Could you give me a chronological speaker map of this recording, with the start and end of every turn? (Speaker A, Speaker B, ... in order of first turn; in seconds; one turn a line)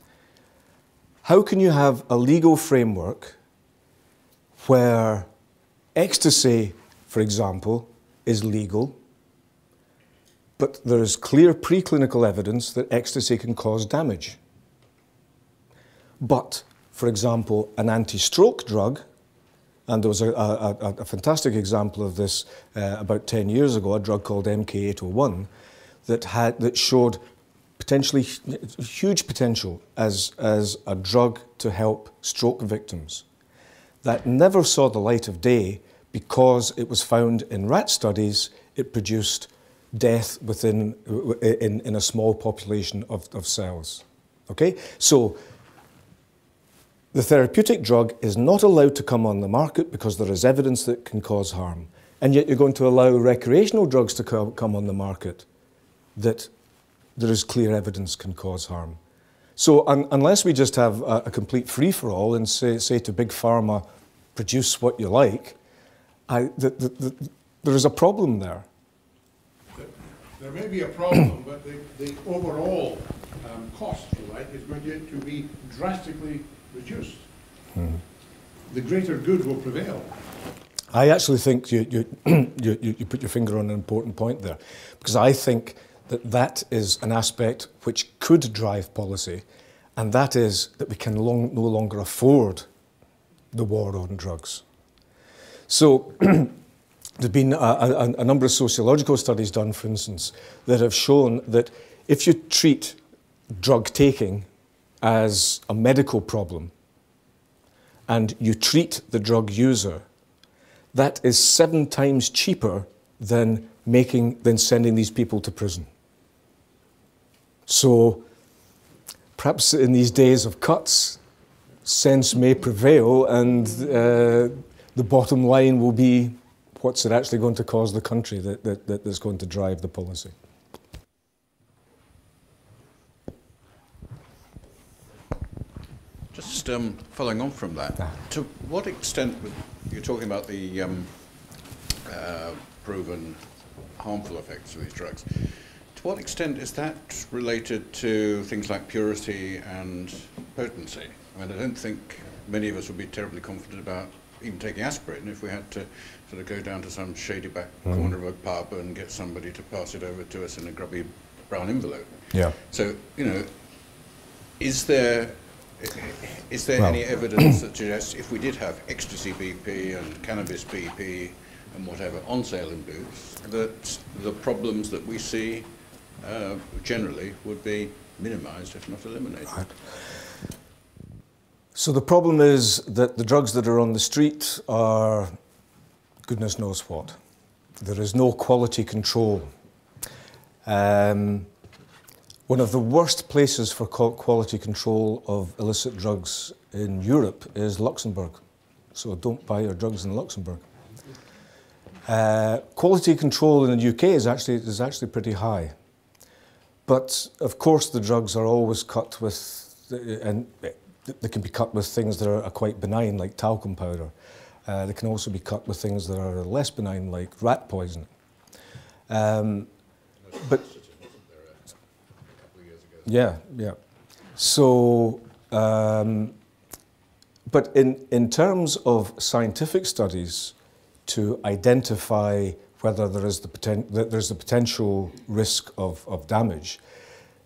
Speaker A: 1.2-3.4
Speaker A: 4.6-5.3
Speaker A: 5.9-9.0
Speaker A: 10.6-14.4
Speaker A: 16.2-19.0
Speaker A: 19.9-25.5
Speaker A: 26.1-27.2
Speaker A: 27.8-33.2
Speaker A: 34.0-45.4
Speaker A: 47.1-55.5
Speaker A: 56.1-56.5
Speaker A: 57.1-59.0
Speaker A: 59.6-65.6
Speaker A: 66.3-68.7
Speaker B: 69.7-77.3
Speaker A: 77.7-78.0
Speaker B: 78.7-80.3
Speaker A: 80.9-89.4
Speaker A: 90.0-92.7
Speaker A: 93.5-94.6
Speaker A: 95.7-96.5
Speaker A: 97.2-103.0
Speaker A: 103.5-104.5
Speaker A: 105.0-106.7
Speaker A: 108.1-110.0
Speaker A: 110.9-115.9
Speaker A: 117.7-118.2
Speaker A: 119.3-121.2
Speaker A: 121.8-130.3
Speaker C: 136.3-163.6
Speaker A: 157.8-158.1
Speaker A: 162.3-162.6
Speaker C: 164.6-175.7
Speaker A: 166.8-167.5
Speaker C: 176.2-179.7
Speaker A: 181.7-185.3
Speaker A: 186.2-187.2
Speaker A: 187.8-189.5
Speaker A: 190.7-191.5
Speaker A: 192.5-198.4
Speaker A: 198.9-200.6
Speaker A: 202.1-205.7
Speaker A: 206.9-214.1
Speaker A: 214.7-218.1
Speaker A: 219.1-219.7
Speaker C: 220.2-223.1
Speaker A: 223.0-223.8
Speaker A: 224.3-226.3
Speaker A: 227.5-230.5
Speaker A: 231.1-236.8